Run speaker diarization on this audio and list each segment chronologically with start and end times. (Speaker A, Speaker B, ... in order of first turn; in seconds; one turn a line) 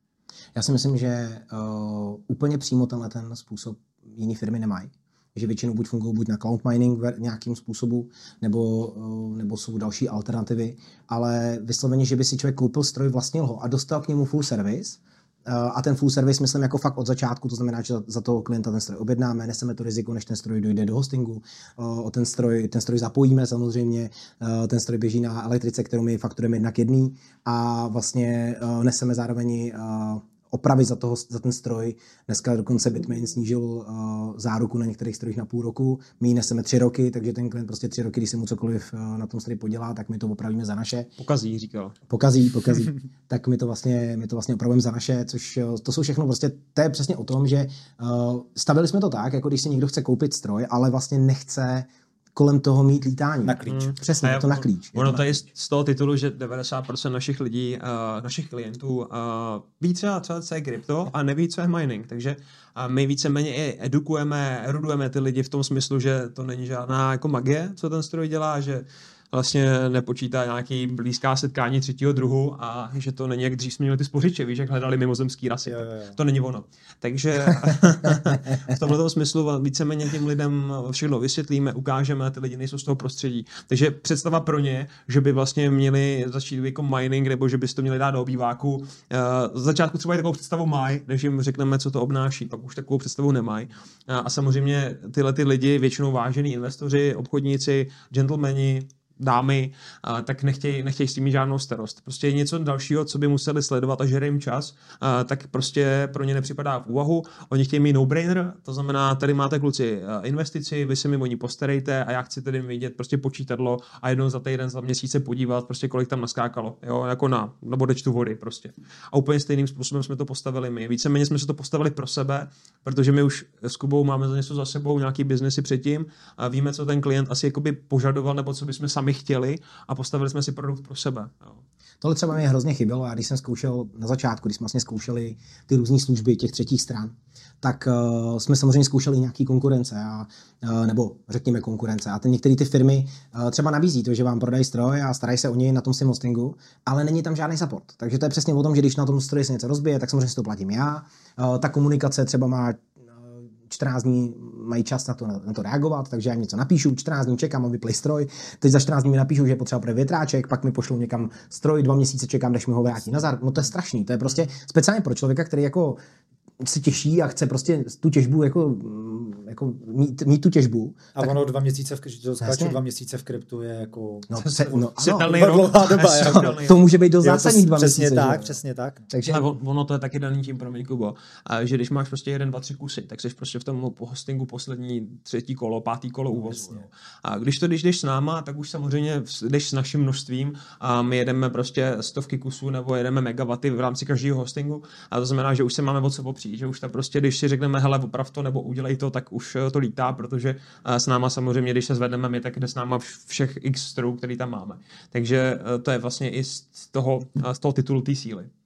Speaker A: 0.6-41.1
Speaker B: 41.2-42.0
Speaker A: 42.1-55.4
Speaker C: 53.5-53.9
Speaker B: 53.7-131.6
Speaker C: 75.7-76.2
Speaker A: 132.0-166.0
Speaker A: 166.6-171.3
Speaker C: 171.2-179.1
Speaker A: 172.4-172.8
Speaker A: 174.3-178.6
Speaker B: 174.4-176.8
Speaker A: 179.1-179.4
Speaker B: 179.2-208.5
Speaker C: 186.5-186.9